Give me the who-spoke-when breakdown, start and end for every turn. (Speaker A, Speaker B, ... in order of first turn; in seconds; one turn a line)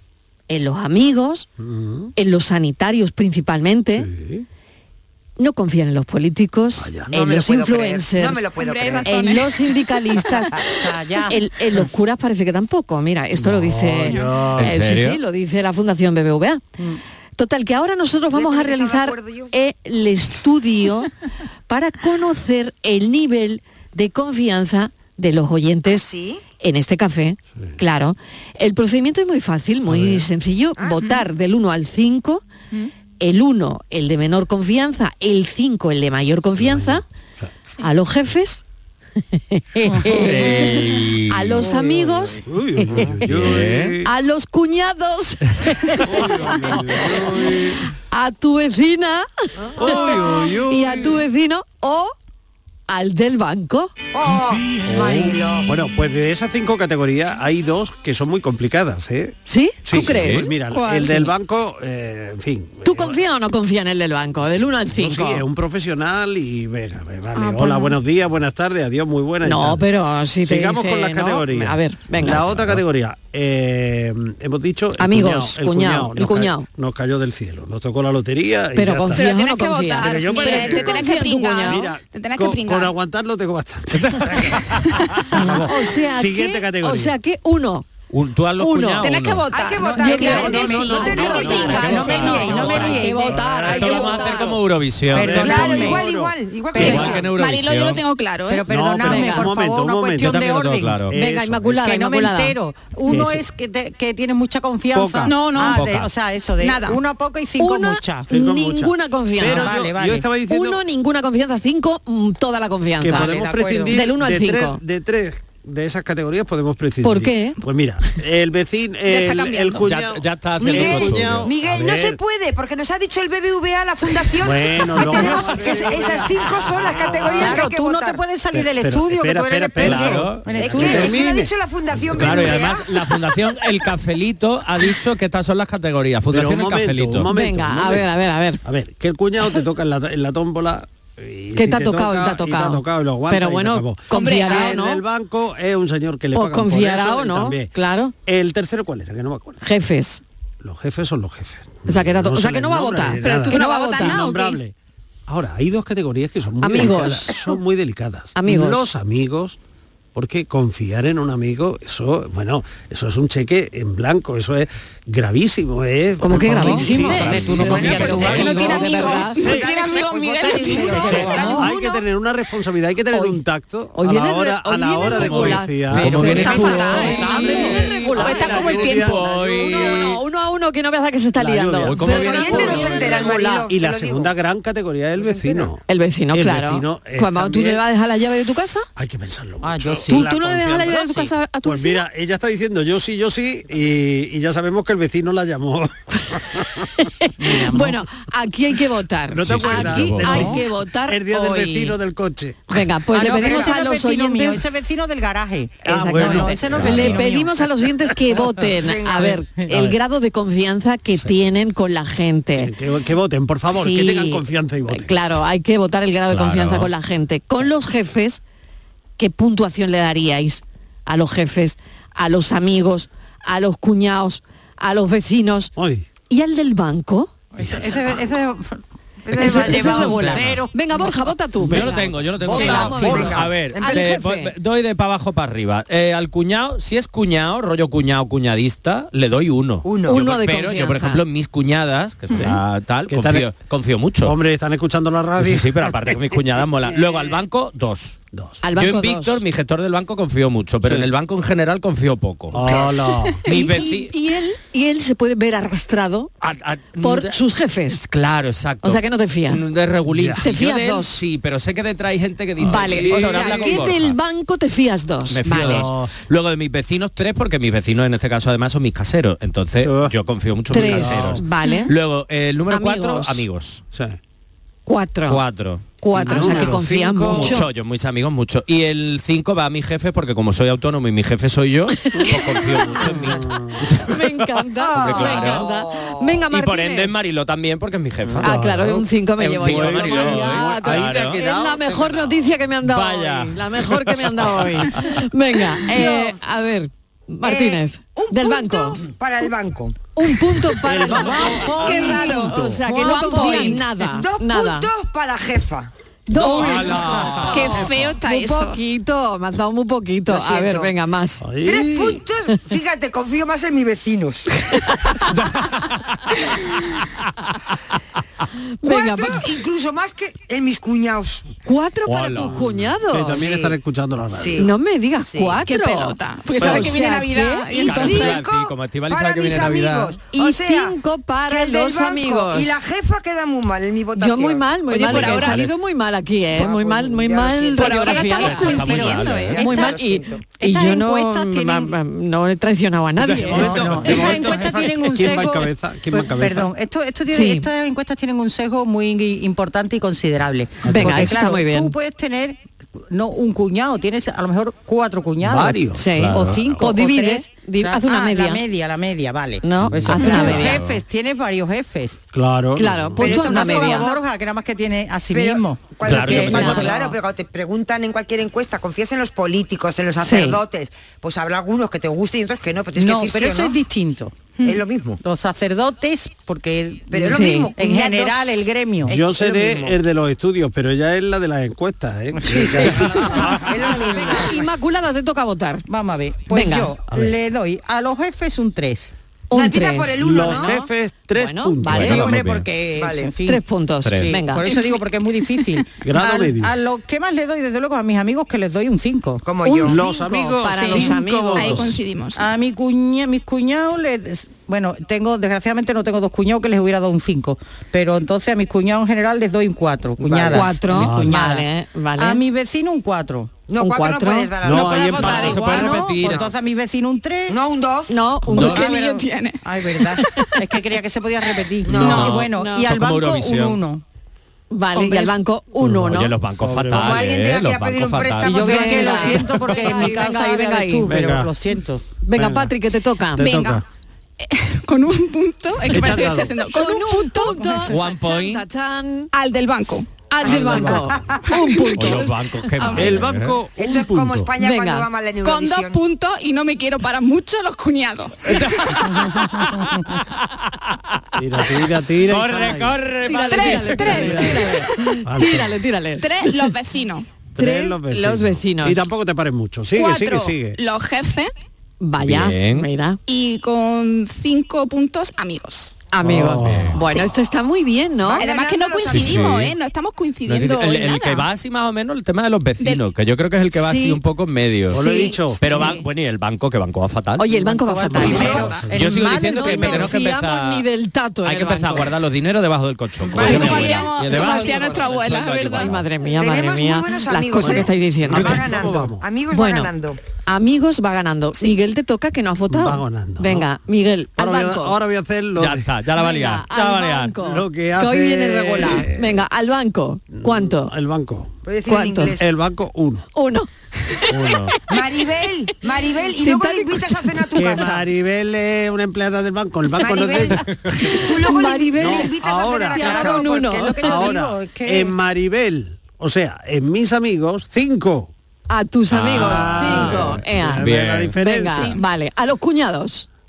Speaker A: 0.5-1.5
Speaker B: 1.6-2.1
Speaker A: 2.2-4.1
Speaker B: 3.9-4.5
Speaker A: 5.4-8.5
Speaker B: 6.8-7.6
Speaker C: 7.1-9.3
Speaker D: 8.6-9.5
Speaker A: 9.1-10.6
Speaker E: 10.6-11.4
Speaker A: 11.3-16.6
Speaker B: 13.3-14.8
Speaker F: 14.6-15.2
Speaker A: 17.4-21.1
Speaker C: 18.3-19.5
Speaker A: 21.7-32.4
Speaker C: 25.9-26.4
Speaker B: 29.9-30.3
Speaker C: 30.8-31.1
Speaker A: 33.2-37.0
Speaker B: 36.6-37.5
Speaker A: 37.8-38.6
Speaker A: 39.3-43.1
Speaker E: 39.8-40.5
Speaker F: 40.1-41.7
Speaker E: 41.6-42.2
Speaker B: 42.5-44.1
Speaker F: 43.0-44.0
Speaker A: 44.0-47.1
Speaker B: 46.0-47.9
Speaker A: 48.1-52.1
Speaker B: 49.8-51.2
Speaker C: 49.8-50.2
Speaker A: 52.9-53.9
Speaker C: 54.1-55.7
Speaker F: 55.0-55.2
Speaker B: 55.6-63.2
Speaker A: 59.5-60.5
Speaker F: 59.9-60.5
Speaker D: 60.6-61.3
Speaker A: 62.9-65.4
Speaker B: 64.9-69.9
Speaker D: 67.3-68.0
Speaker A: 69.4-72.5
Speaker B: 70.4-79.2
Speaker F: 72.5-72.8
Speaker A: 75.0-76.7
Speaker A: 78.8-81.8
Speaker D: 79.1-82.9
Speaker B: 80.0-87.2
Speaker A: 85.4-87.9
Speaker F: 88.1-89.8
Speaker A: 88.6-89.1
Speaker D: 89.0-90.6
Speaker C: 89.5-92.4
Speaker E: 89.9-94.4
Speaker A: 90.0-94.6
Speaker B: 90.1-92.3
Speaker D: 91.2-92.9
Speaker F: 91.6-96.0
Speaker B: 93.2-94.1
Speaker E: 95.1-96.0
Speaker B: 95.1-96.4
Speaker C: 95.4-97.3
Speaker E: 96.7-97.1
Speaker F: 96.8-98.0
Speaker A: 96.8-97.2
Speaker D: 97.3-98.6
Speaker E: 98.5-101.0
Speaker B: 98.7-100.5
Speaker A: 99.0-99.5
Speaker F: 100.2-101.2
Speaker B: 101.1-101.9
Speaker A: 101.2-102.6
Speaker E: 101.8-108.3
Speaker B: 103.1-103.4
Speaker B: 104.9-105.4
Speaker D: 105.2-105.8
Speaker F: 105.7-106.1
Speaker D: 106.6-107.0
Speaker A: 107.6-109.7
Speaker B: 108.3-110.8
Speaker E: 109.4-110.3
Speaker A: 110.5-113.3
Speaker B: 113.0-122.2
Speaker E: 113.1-113.9
Speaker A: 113.9-114.8
Speaker A: 117.0-117.6
Speaker D: 119.1-119.8
Speaker F: 119.8-121.5
Speaker C: 120.6-128.2
Speaker B: 124.4-127.7
Speaker E: 125.1-125.6
Speaker E: 127.3-131.2
Speaker B: 128.5-132.7
Speaker F: 129.8-130.5
Speaker C: 130.6-132.9
Speaker F: 132.2-137.3
Speaker B: 136.3-138.1
Speaker A: 137.3-138.6
Speaker B: 138.6-147.7
Speaker A: 141.6-145.0
Speaker D: 144.1-144.8
Speaker A: 146.3-148.2
Speaker B: 148.3-149.7
Speaker A: 149.6-150.2
Speaker B: 150.6-154.7
Speaker A: 151.9-154.4
Speaker D: 153.2-154.6
Speaker B: 155.3-159.6
Speaker A: 156.6-157.5
Speaker A: 158.3-158.8
Speaker B: 160.1-168.6
Speaker A: 166.2-169.5
Speaker E: 166.4-166.8
Speaker F: 166.5-168.8
Speaker C: 167.9-171.7
Speaker E: 168.0-168.3
Speaker D: 168.3-172.0
Speaker B: 169.4-169.7
Speaker A: 170.6-171.7
Speaker B: 170.8-180.2
Speaker A: 173.1-173.4
Speaker A: 173.9-178.8
Speaker F: 175.1-180.2
Speaker D: 176.7-179.2
Speaker A: 179.6-183.7
Speaker B: 181.4-187.8
Speaker F: 181.8-183.1
Speaker C: 182.0-184.3
Speaker A: 185.9-188.9
Speaker B: 189.0-196.9
Speaker E: 189.6-190.3
Speaker A: 190.1-192.1
Speaker A: 197.0-202.0
Speaker E: 197.4-198.0
Speaker B: 199.3-202.8
Speaker F: 199.4-200.6
Speaker A: 202.7-204.7
Speaker E: 203.1-207.5
Speaker B: 205.8-207.3
Speaker A: 205.9-212.7
Speaker C: 208.8-209.4
Speaker B: 209.7-210.0
Speaker B: 211.1-211.4
Speaker B: 212.6-215.2
Speaker A: 213.7-218.4
Speaker F: 216.3-216.9
Speaker A: 219.2-225.7
Speaker B: 225.8-226.1
Speaker A: 226.3-227.3
Speaker E: 227.5-230.8
Speaker B: 227.6-228.2
Speaker A: 229.3-234.5
Speaker C: 229.7-230.0
Speaker B: 230.0-230.5
Speaker B: 231.6-233.6
Speaker F: 231.7-244.4
Speaker C: 233.0-234.2
Speaker C: 239.8-240.2
Speaker A: 240.1-241.2
Speaker B: 242.3-243.5
Speaker B: 244.2-246.9
Speaker F: 245.4-248.2
Speaker B: 248.3-248.6
Speaker A: 248.6-249.4
Speaker F: 248.8-252.9
Speaker B: 252.5-253.4
Speaker F: 253.5-254.1
Speaker A: 253.5-256.3
Speaker F: 256.4-264.2
Speaker A: 257.0-258.0
Speaker A: 258.8-259.6
Speaker B: 260.1-260.4
Speaker A: 260.4-261.2
Speaker A: 262.6-265.9
Speaker E: 263.2-263.8
Speaker F: 265.3-273.8
Speaker B: 265.6-266.1
Speaker B: 269.8-270.1
Speaker A: 270.7-271.9
Speaker B: 270.7-271.4
Speaker A: 272.7-273.4
Speaker B: 273.9-274.2
Speaker A: 274.9-275.4
Speaker F: 275.3-284.4
Speaker A: 276.0-277.7
Speaker B: 276.1-277.6
Speaker B: 282.1-284.0
Speaker A: 284.0-287.1
Speaker C: 284.8-286.5
Speaker F: 284.9-285.7
Speaker F: 286.5-288.6
Speaker B: 288.3-292.6
Speaker A: 288.4-299.0
Speaker F: 289.4-291.4
Speaker F: 292.9-295.1
Speaker C: 295.9-296.3
Speaker C: 297.4-300.1
Speaker A: 300.2-304.9
Speaker B: 300.8-302.8
Speaker E: 301.1-303.8
Speaker D: 301.7-303.9
Speaker C: 301.9-302.5
Speaker C: 304.0-305.9
Speaker A: 306.3-311.5
Speaker B: 306.4-307.6
Speaker D: 307.5-308.8
Speaker C: 310.3-310.9
Speaker B: 311.4-312.2
Speaker C: 311.6-314.5
Speaker A: 318.8-319.5
Speaker C: 318.8-321.5
Speaker A: 321.6-323.4
Speaker F: 322.1-322.7
Speaker B: 322.5-324.7
Speaker C: 323.3-323.7
Speaker C: 324.3-325.6
Speaker A: 324.6-328.0
Speaker D: 325.6-328.4
Speaker B: 326.6-326.9
Speaker F: 327.8-330.2
Speaker C: 327.9-331.0
Speaker A: 330.3-332.8
Speaker C: 331.5-335.5
Speaker A: 334.2-343.9
Speaker D: 334.9-335.6
Speaker F: 334.9-335.7
Speaker C: 336.5-338.5
Speaker D: 337.8-339.7
Speaker F: 338.3-339.6
Speaker C: 339.6-340.4
Speaker E: 339.6-339.9
Speaker E: 340.6-341.9
Speaker F: 343.2-343.6
Speaker B: 343.4-346.7
Speaker E: 343.5-362.2
Speaker A: 347.3-347.7
Speaker B: 350.8-351.4
Speaker A: 350.9-351.9
Speaker B: 355.4-356.2
Speaker A: 356.0-358.6
Speaker F: 356.2-356.9
Speaker A: 359.6-360.8
Speaker F: 359.9-361.0
Speaker B: 360.1-360.4
Speaker B: 362.3-363.2
Speaker A: 362.8-364.1
Speaker C: 363.2-364.2
Speaker E: 363.2-367.0
Speaker C: 365.3-373.8
Speaker F: 366.0-366.9
Speaker A: 366.5-367.1
Speaker A: 370.2-370.6
Speaker E: 373.0-374.4
Speaker C: 374.6-375.2
Speaker E: 375.2-379.2
Speaker C: 377.1-380.0
Speaker A: 377.2-377.7
Speaker B: 379.1-384.5
Speaker E: 382.3-383.5
Speaker C: 382.5-384.7
Speaker A: 384.1-385.9
Speaker E: 385.9-389.1
Speaker A: 386.5-386.9
Speaker B: 387.1-387.4
Speaker A: 389.5-392.4
Speaker C: 389.5-390.8
Speaker B: 390.2-392.2
Speaker F: 391.8-392.7
Speaker E: 392.0-399.4
Speaker C: 392.9-393.3
Speaker A: 393.5-394.7
Speaker F: 394.1-394.4
Speaker D: 394.7-395.0
Speaker B: 396.0-396.8
Speaker C: 399.4-400.0
Speaker A: 399.6-401.9
Speaker B: 399.8-402.0
Speaker D: 400.0-402.4
Speaker E: 402.4-413.5
Speaker B: 410.4-411.4
Speaker A: 410.4-412.4
Speaker C: 413.7-416.0
Speaker A: 413.8-416.1
Speaker B: 414.6-415.6
Speaker E: 415.2-417.6
Speaker F: 415.3-416.5
Speaker C: 417.5-418.3
Speaker A: 418.1-418.9
Speaker F: 418.5-418.9
Speaker D: 418.6-419.6
Speaker E: 418.6-424.0
Speaker C: 421.8-422.4
Speaker F: 422.0-423.8
Speaker A: 422.4-422.9
Speaker A: 424.7-426.3
Speaker D: 425.0-425.4
Speaker B: 425.8-427.2
Speaker F: 425.9-428.8
Speaker C: 426.9-429.4
Speaker E: 428.4-432.0
Speaker A: 428.6-431.1
Speaker B: 431.1-431.5
Speaker A: 432.2-433.7
Speaker B: 432.3-432.7
Speaker B: 433.4-433.8
Speaker D: 433.4-433.8
Speaker D: 434.4-437.9
Speaker B: 435.9-436.6
Speaker A: 436.7-439.3
Speaker F: 437.9-438.6
Speaker D: 439.3-440.1
Speaker A: 440.3-442.4
Speaker B: 440.4-441.2
Speaker D: 441.5-442.2
Speaker F: 441.9-443.6
Speaker D: 442.8-443.2
Speaker B: 442.9-444.5
Speaker C: 443.8-446.0
Speaker A: 444.6-445.1
Speaker D: 445.4-449.1
Speaker F: 448.5-449.8
Speaker B: 451.4-453.0
Speaker F: 452.2-454.7
Speaker A: 453.2-456.7
Speaker D: 453.4-454.4
Speaker B: 454.1-454.6
Speaker B: 455.2-455.8
Speaker D: 456.2-457.3
Speaker B: 457.6-460.8
Speaker A: 457.6-459.1
Speaker D: 459.9-461.5
Speaker A: 462.0-463.2
Speaker F: 462.2-462.9
Speaker D: 463.3-466.0
Speaker A: 466.1-468.5
Speaker B: 466.2-467.1
Speaker F: 466.6-467.0
Speaker C: 468.2-469.4
Speaker D: 468.4-471.5
Speaker F: 469.1-469.8
Speaker F: 470.5-477.5
Speaker A: 473.7-474.2
Speaker B: 474.9-475.8
Speaker A: 474.9-476.1
Speaker A: 477.4-478.7
Speaker E: 477.6-480.2
Speaker F: 478.2-480.9
Speaker C: 478.3-478.6
Speaker B: 478.4-479.1
Speaker A: 479.6-482.1
Speaker F: 481.4-486.0
Speaker D: 483.3-486.0
Speaker C: 483.4-485.1
Speaker B: 483.5-483.9
Speaker A: 485.8-488.7
Speaker C: 486.3-490.2
Speaker B: 487.6-489.2
Speaker A: 489.5-489.9
Speaker A: 490.5-495.0
Speaker B: 492.7-493.7
Speaker B: 494.4-495.9
Speaker F: 495.6-497.4
Speaker A: 496.1-500.9
Speaker B: 497.4-499.5
Speaker B: 500.3-501.5
Speaker C: 501.6-502.4
Speaker A: 501.9-502.4
Speaker B: 502.4-503.3
Speaker A: 503.4-504.6
Speaker F: 504.3-504.8
Speaker C: 504.9-508.0
Speaker A: 506.4-508.0
Speaker B: 507.6-510.7
Speaker C: 510.0-513.7
Speaker A: 511.0-512.3
Speaker B: 511.9-513.3
Speaker A: 512.9-514.4
Speaker E: 513.0-515.1
Speaker B: 514.0-518.3
Speaker A: 518.7-520.9
Speaker F: 519.1-521.4
Speaker B: 519.2-522.0
Speaker A: 521.4-523.3